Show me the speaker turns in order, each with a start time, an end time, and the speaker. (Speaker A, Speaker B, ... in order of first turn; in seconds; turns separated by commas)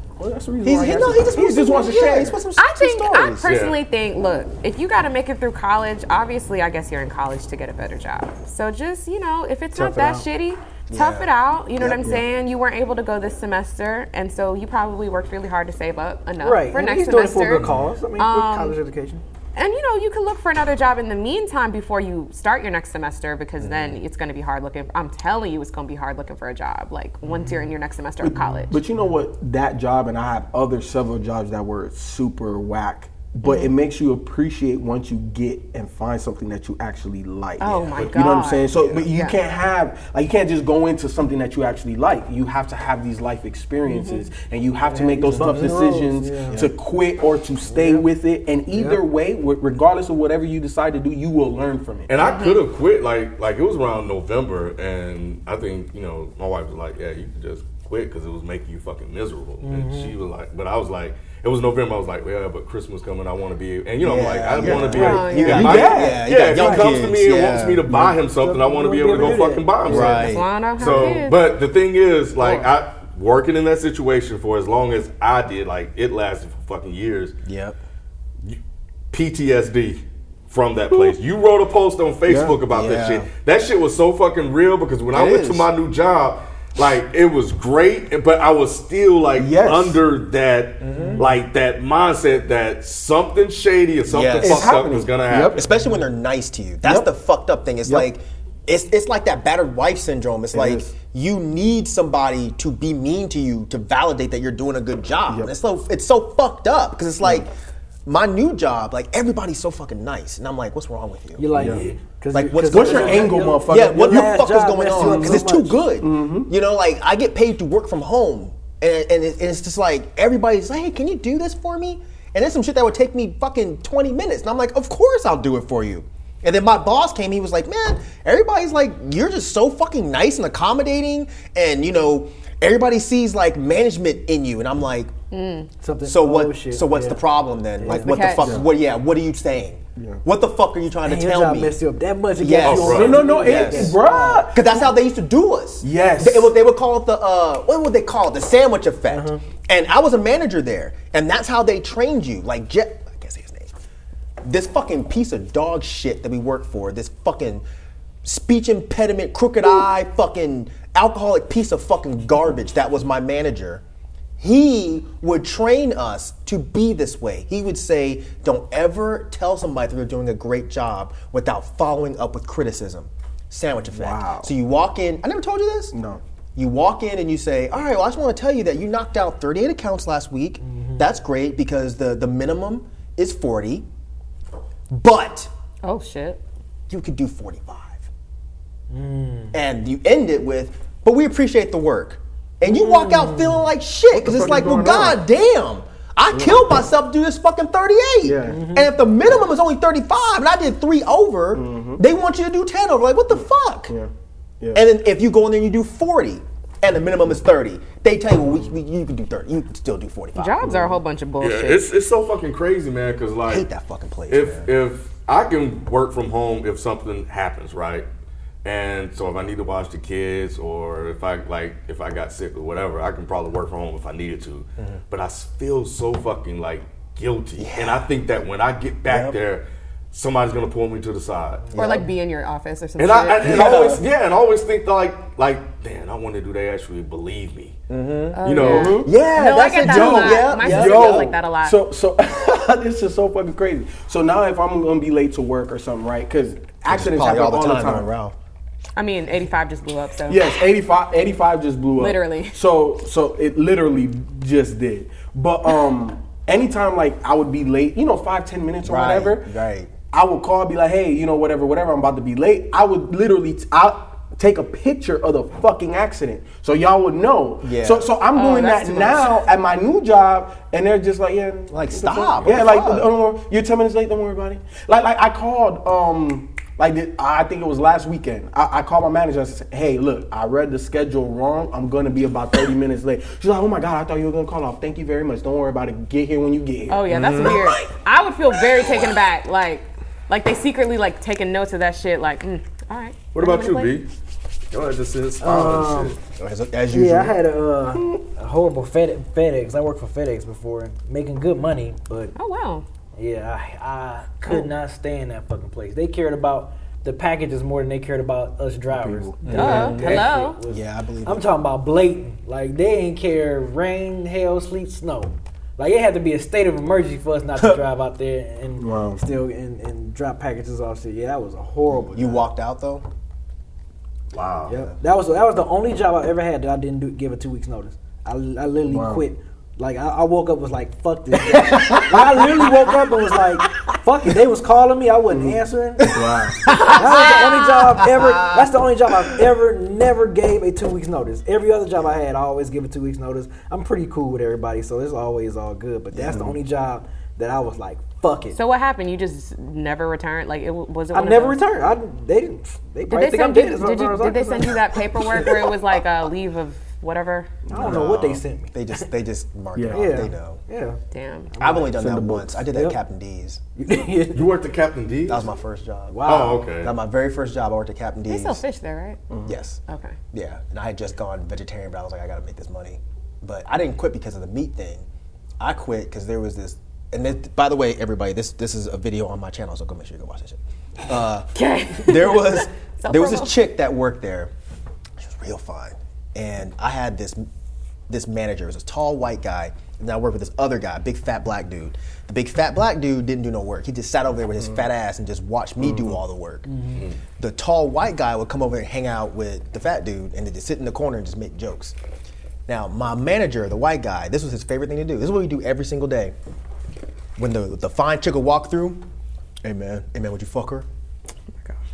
Speaker A: 0.2-2.4, Speaker B: 0.6-3.5, Speaker C: 1.9-18.8, Speaker D: 3.4-3.8, Speaker B: 9.8-10.2, Speaker B: 10.9-12.2, Speaker E: 16.4-19.2, Speaker D: 17.5-18.0, Speaker C: 19.5-28.8, Speaker A: 28.2-52.1, Speaker C: 33.4-33.7, Speaker C: 37.6-39.4, Speaker D: 37.9-38.2, Speaker C: 43.8-44.3, Speaker E: 44.8-46.7, Speaker E: 47.7-48.0, Speaker E: 48.7-49.0, Speaker D: 52.1-77.3, Speaker C: 52.2-52.6, Speaker E: 59.6-60.2, Speaker B: 64.0-68.0, Speaker A: 64.6-66.3, Speaker E: 64.8-65.4, Speaker C: 64.9-65.8, Speaker E: 66.5-66.9, Speaker A: 67.9-68.2, Speaker E: 68.3-70.0, Speaker B: 69.8-70.5, Speaker A: 69.9-70.2, Speaker C: 70.0-71.4, Speaker C: 72.4-72.7, Speaker B: 77.4-77.8, Speaker D: 79.1-95.6, Speaker A: 82.2-82.6, Speaker B: 82.7-83.3, Speaker B: 85.1-85.7, Speaker A: 89.4-90.0, Speaker A: 90.9-91.3, Speaker B: 94.1-94.8, Speaker A: 94.4-95.7, Speaker B: 95.5-107.5, Speaker A: 96.8-97.1, Speaker A: 100.5-100.9, Speaker B: 108.0-135.1, Speaker E: 111.4-115.8, Speaker A: 111.5-111.9, Speaker A: 112.7-116.5, Speaker C: 135.3-135.7, Speaker E: 135.8-137.2, Speaker B: 136.0-141.8, Speaker E: 137.8-138.1, Speaker A: 137.9-138.7, Speaker C: 138.0-138.6, Speaker E: 141.0-144.5, Speaker B: 142.4-144.0, Speaker D: 142.6-143.3, Speaker A: 142.8-144.6, Speaker B: 144.5-153.7, Speaker A: 145.8-146.5, Speaker E: 149.1-149.4, Speaker B: 154.4-157.6, Speaker B: 158.2-163.8, Speaker B: 164.4-175.9, Speaker A: 173.9-174.5, Speaker A: 175.9-176.2, Speaker B: 176.6-183.8, Speaker E: 180.6-181.1, Speaker B: 184.9-185.5, Speaker C: 185.8-186.4, Speaker B: 186.9-188.1, Speaker E: 188.9-189.6, Speaker B: 189.5-203.9, Speaker C: 192.7-193.0, Speaker E: 192.8-193.6, Speaker A: 194.1-195.2, Speaker A: 196.3-196.6, Speaker A: 198.2-198.7, Speaker E: 198.5-199.0, Speaker A: 201.5-202.0, Speaker A: 203.3-204.8, Speaker B: 204.7-210.8, Speaker C: 210.3-211.8, Speaker A: 210.6-210.9, Speaker D: 211.4-213.7, Speaker B: 213.5-214.7, Speaker D: 214.3-218.1, Speaker D: 218.6-231.7, Speaker B: 227.6-228.1, Speaker B: 229.1-229.4, Speaker B: 231.7-232.1, Speaker C: 231.7-234.0, Speaker D: 233.0-237.8, Speaker A: 233.4-234.1, Speaker B: 237.9-241.4, Speaker C: 238.3-241.8, Speaker D: 238.4-239.0, Speaker A: 238.6-239.2, Speaker A: 239.8-248.1, Speaker B: 246.9-248.3, Speaker C: 248.9-250.6, Speaker A: 250.3-259.5, Speaker C: 252.0-252.6, Speaker B: 258.8-259.9, Speaker A: 260.1-287.6, Speaker B: 267.6-268.1, Speaker C: 268.3-269.5, Speaker B: 271.7-273.1, Speaker C: 286.9-294.0, Speaker B: 287.1-287.8, Speaker B: 288.8-289.1, Speaker D: 293.3-294.1, Speaker D: 294.7-296.1, Speaker E: 295.4-296.1, Speaker B: 296.2-297.4, Speaker E: 296.9-302.3, Speaker C: 302.3-302.9, Speaker E: 303.1-322.5, Speaker A: 308.9-310.2, Speaker B: 309.5-309.9, Speaker C: 309.5-310.6, Speaker B: 310.7-311.5, Speaker A: 318.8-319.2, Speaker B: 322.1-323.1, Speaker D: 324.3-324.8, Speaker E: 324.7-336.2, Speaker A: 328.9-329.2, Speaker B: 331.5-332.7, Speaker A: 335.3-335.6, Speaker B: 336.1-337.4, Speaker A: 336.1-336.6, Speaker C: 336.7-337.9, Speaker E: 336.9-348.6, Speaker B: 338.0-338.7, Speaker B: 346.2-346.5, Speaker A: 346.2-346.5, Speaker C: 348.5-351.6, Speaker E: 351.1-354.8, Speaker C: 353.1-357.5, Speaker E: 355.4-355.7, Speaker A: 357.6-358.1, Speaker E: 357.7-359.1, Speaker B: 357.7-360.6, Speaker A: 359.7-360.3, Speaker E: 359.9-361.0, Speaker C: 361.1-361.5, Speaker E: 361.5-362.0, Speaker B: 361.6-363.6, Speaker A: 361.9-362.6, Speaker E: 362.6-363.0, Speaker E: 363.8-364.6, Speaker D: 364.3-365.5, Speaker B: 365.3-368.6, Speaker E: 366.1-366.6, Speaker D: 366.2-366.9, Speaker C: 368.3-369.2, Speaker A: 369.3-369.6, Speaker B: 369.4-369.8, Speaker C: 369.9-370.2, Speaker B: 370.3-375.0, Speaker B: 375.6-384.5, Speaker C: 381.5-383.5, Speaker B: 385.2-387.4, Speaker B: 388.1-396.7, Speaker A: 395.8-396.1, Speaker D: 396.9-397.2, Speaker B: 397.4-401.9, Speaker B: 402.7-406.3, Speaker B: 407.4-409.0, Speaker B: 409.6-410.9